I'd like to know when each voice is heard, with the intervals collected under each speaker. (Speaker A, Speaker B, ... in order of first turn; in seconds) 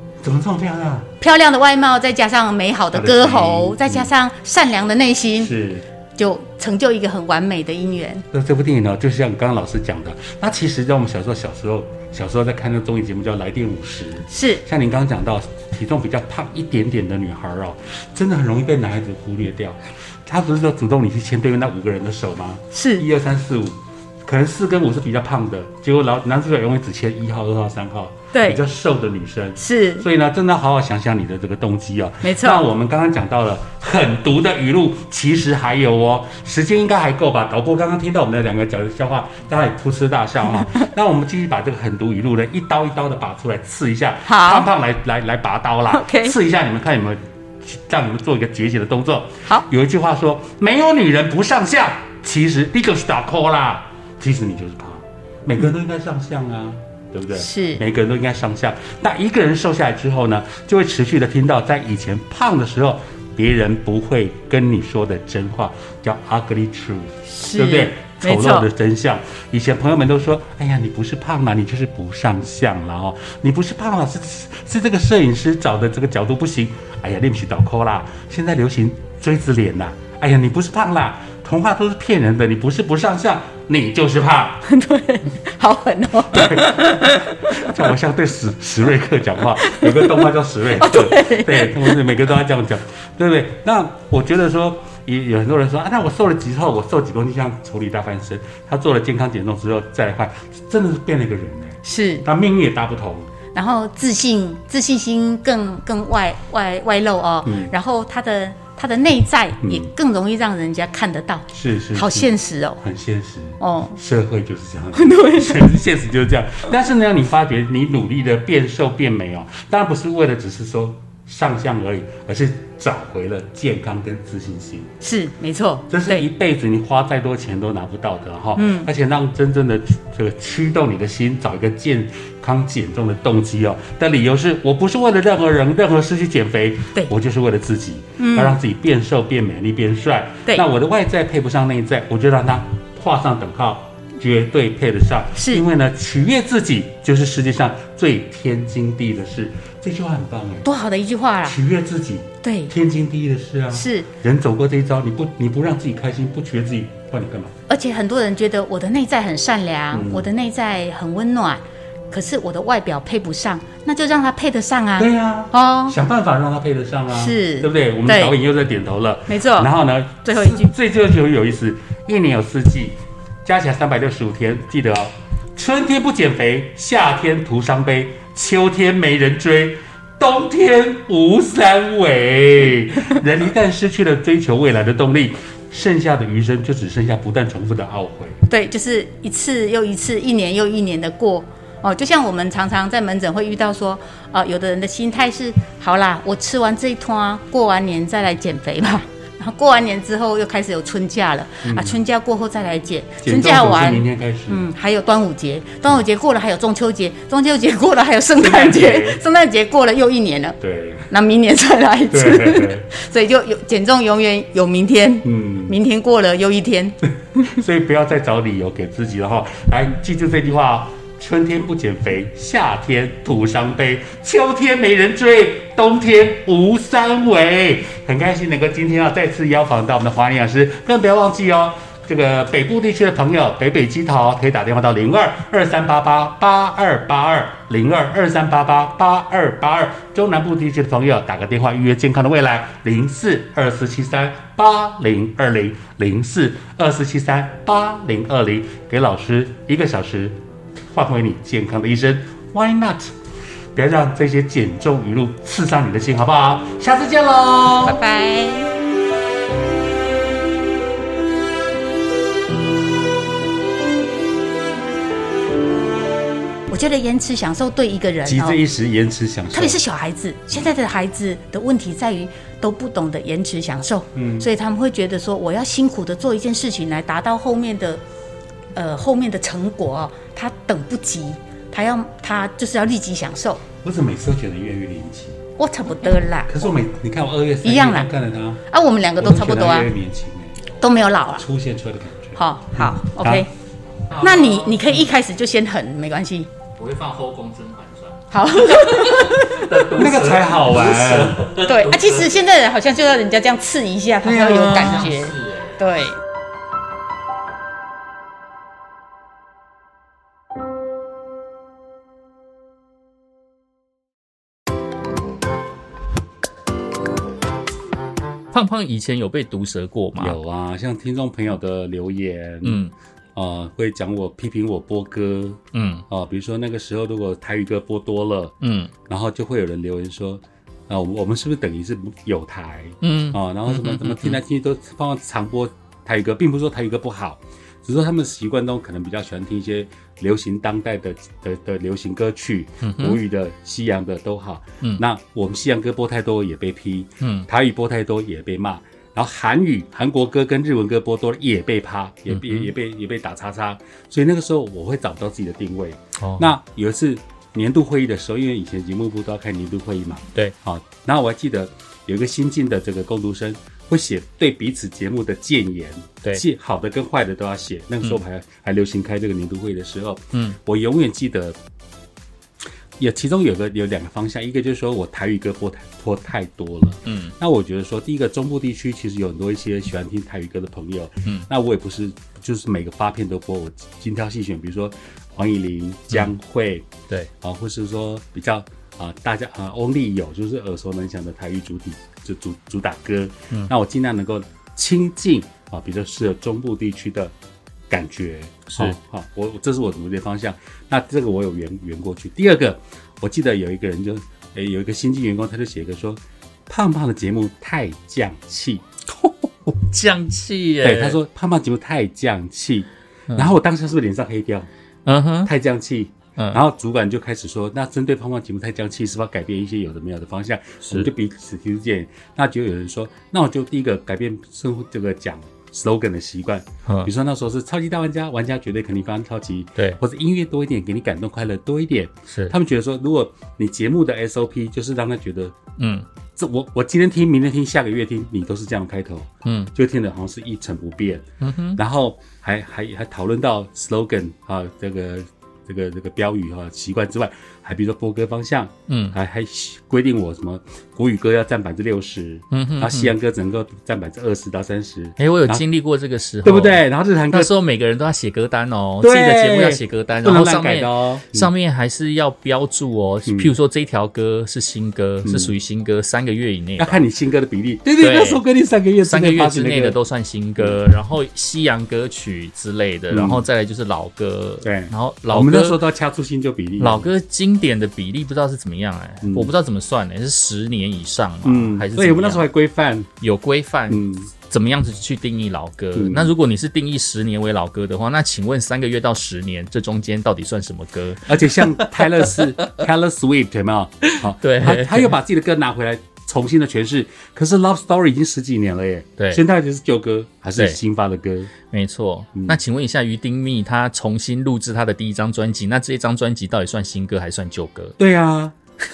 Speaker A: 0.2-1.1, 2.9-4.1, 5.4-5.8, 8.3-84.6, 86.3-103.3, 107.5-107.7, 109.6-109.9, 111.5-112.3, 112.8-124.9, 125.9-150.7, 151.4-157.5, 159.9-160.3, 165.0-188.4, 201.6-202.0, 203.2-204.7, 208.3-209.2, 210.6-211.1, 212.1-212.9, 215.2-215.7, 217.4-250.4, 250.9-253.1, 253.7-258.0, 268.2-269.8, 274.1-274.5, 283.8-285.4, 286.5-288.6, 289.2-290.7, 291.4-293.4, 299.9-301.5, 304.2-305.1, 320.2-322.8, 323.4-328.5, 329.1-371.6, 373.0-386.9, 387.4-397.3, 397.9-408.8, 410.8-414.7, 415.4-435.6, 436.4-441.2, 441.8-455.6, 456.4-457.5, 459.0-461.5, 463.2-463.5, 465.2-465.5, 466.8-470.0, 473.1-473.5, 474.6-477.1, 479.2-479.5, 481.4-483.1, 483.9-484.3, 485.9-486.3, 491.2-501.5, 508.0-508.5
Speaker B: 1.2-5.5, 6.2-8.2, 14.3-14.6, 22.7-23.0, 28.3-28.6, 29.6-30.1, 32.2-32.6, 44.2-44.7, 45.9-46.3, 57.3-57.8, 67.3-68.7, 84.6-87.8, 89.6-90.2, 90.8-92.0, 101.8-102.2, 103.5-112.8, 113.6-114.0, 114.9-115.7, 125.0-126.2, 128.6-128.9, 138.2-138.6, 145.3-145.6, 150.6-151.6, 152.4-152.7, 153.7-154.1, 157.7-165.9, 167.1-168.3, 169.3-169.7, 170.2-170.7, 188.5-210.6, 211.1-217.5, 257.8-258.7, 266.7-268.6, 269.5-278.0, 278.7-283.6, 285.6-286.7, 287.6-288.1, 288.7-289.9, 290.8-291.4, 292.4-293.5, 294.2-296.5, 298.3-299.7, 301.6-306.2
Speaker C: 294.1-295.0, 296.8-302.3, 304.5-305.8, 318.5-320.4, 322.6-322.9, 325.7-326.0, 328.6-328.9, 333.0-334.4, 342.8-343.2, 347.2-347.5, 352.3-352.7, 356.2-356.5, 377.1-377.3, 398.7-398.9, 409.1-411.2, 413.3-413.5, 415.1-415.5, 432.3-432.5, 435.8-436.1, 439.4-439.7, 441.4-441.8, 448.9-449.1, 452.5-453.1, 455.2-467.0, 468.0-468.4, 469.0-475.8, 476.8-482.4, 483.2-492.8, 494.2-495.1, 499.2-499.4, 501.7-507.9